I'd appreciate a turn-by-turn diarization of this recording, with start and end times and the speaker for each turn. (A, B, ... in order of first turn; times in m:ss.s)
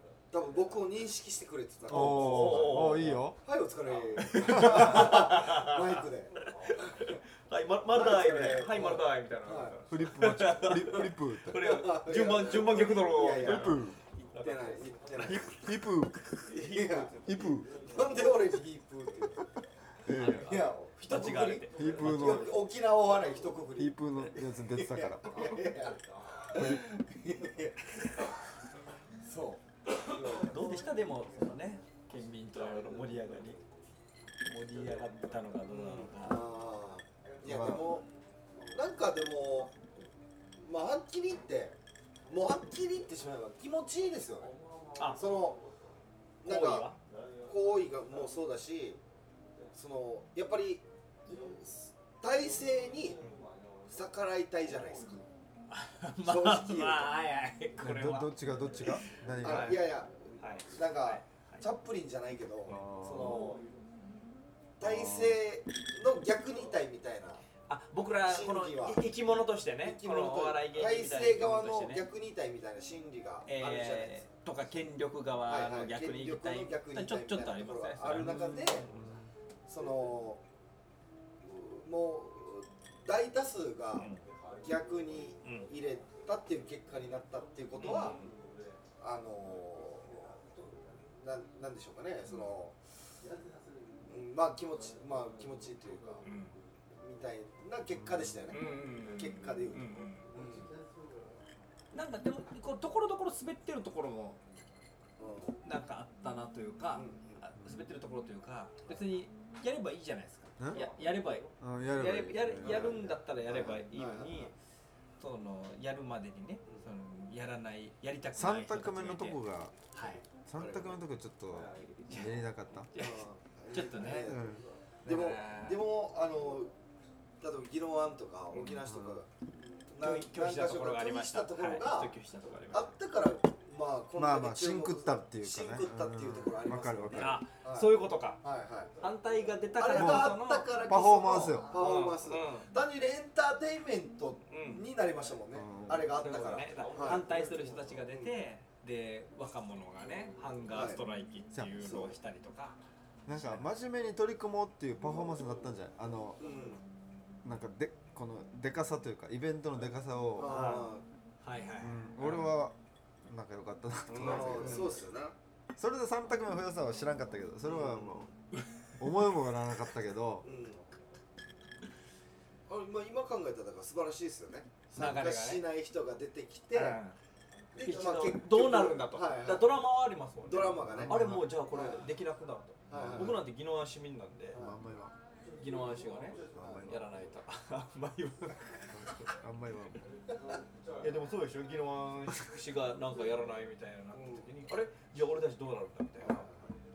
0:00.3-0:07.1 A
0:01.9-0:03.2 B
0:01.9-0:03.4 C
0:04.2-0:15.4 B
0:04.4-0:04.9 C
0:07.9-0:09.8 A
0:09.9-0:11.6 C
0:10.7-0:15.8 A
0:13.4-0:14.0 C
0:15.2-0:16.3 C
0:16.4-0:17.4 B
0:16.5-0:17.2 A
0:17.2-0:17.7 C
0:17.7-0:19.5 A
0:20.0-0:20.5 C
0:20.1-0:22.4 B
0:20.2-0:28.4 A
0:21.7-0:22.6 C
0:23.8-0:25.4 C
0:29.2-0:30.9 A
0:30.3-0:33.6 B
0:34.4-0:36.4 B
0:35.7-0:38.0 A
0:37.4-0:37.9 C
0:38.7-0:39.7 A
0:40.6-0:41.8 A
0:42.3-0:45.6 A
0:45.0-0:45.2 B
0:46.4-0:47.0 A
0:46.4-0:47.0 B
0:47.5-0:49.0 A
0:49.7-0:53.2 A
0:53.9-0:55.2 A
0:55.7-0:59.8 B
0:56.2-0:57.1 A
0:57.8-0:59.8 C
0:59.4-1:03.6 A
1:00.4-1:01.6 B
1:02.7-1:03.6 C
1:04.8-1:07.4 A
1:04.8-1:05.4 C
1:07.7-1:12.0 B
1:08.3-1:09.0 A
1:09.8-1:14.3 A
1:13.4-1:19.1 B
1:15.5-1:18.9 A
1:18.1-1:19.2 C
1:19.7-1:20.4 A
1:21.4-1:24.1 A
1:24.0-1:24.2 B
1:24.6-1:28.2 A
1:25.4-1:25.7 B
1:27.8-1:28.3 B
1:29.0-1:30.4 A
1:31.2-1:32.8 A
1:34.1-1:36.2 A
1:36.2-1:36.6 B
1:37.0-1:40.7 A
1:37.9-1:38.4 C
1:38.5-1:40.4 B
1:41.9-1:44.4 B
1:45.2-1:45.6 A
1:45.6-1:54.6 B
1:46.9-1:47.4 A
1:51.6-1:53.0 C
1:52.6-1:54.5 A
1:55.2-1:59.4 B
1:58.4-1:59.8 C
1:59.9-2:00.2 B
2:00.4-2:02.9 C
2:00.6-2:01.0 A
2:02.0-2:02.4 B
2:02.9-2:04.4 B
2:03.0-2:06.7 A
2:04.3-2:04.6 C
2:05.0-2:05.8 B
2:07.4-2:09.3 A
2:08.5-2:09.1 B
2:09.9-2:12.1 A
2:10.0-2:12.9 B
2:12.7-2:19.0 A
2:14.2-2:17.4 C
2:17.2-2:18.4 B
2:19.0-2:20.8 B
2:19.8-2:28.3 A
2:20.0-2:21.8 C
2:21.7-2:22.7 B
2:24.5-2:24.8 B
2:25.5-2:26.1 C
2:26.2-2:33.7 B
2:30.1-2:31.0 A
2:31.7-2:32.2 A
2:33.3-2:36.4 C
2:36.4-2:36.8 A
2:37.4-2:40.8 C
2:40.4-2:41.0 A
2:40.4-2:42.6 B
2:41.8-2:42.8 C
2:43.3-2:45.0 C
2:44.1-2:44.9 B
2:44.2-2:45.4 A
2:45.8-2:48.3 C
2:47.6-2:48.3 A
2:49.0-2:50.5 C
2:50.4-2:50.9 A
2:52.7-2:57.0 A
2:54.9-2:55.6 B
2:56.7-2:57.2 B
2:57.8-2:59.7 A
2:57.8-3:04.6 B
3:00.4-3:02.0 A
3:00.8-3:01.5 C
3:02.9-3:03.4 A
3:02.9-3:03.4 C
3:04.5-3:04.8 A
3:04.6-3:05.2 C
3:05.5-3:09.3 B
3:06.5-3:07.1 C
3:06.6-3:07.0 A
3:08.9-3:10.0 C
3:11.0-3:16.5 B
3:14.1-3:14.5 A
3:16.2-3:16.8 A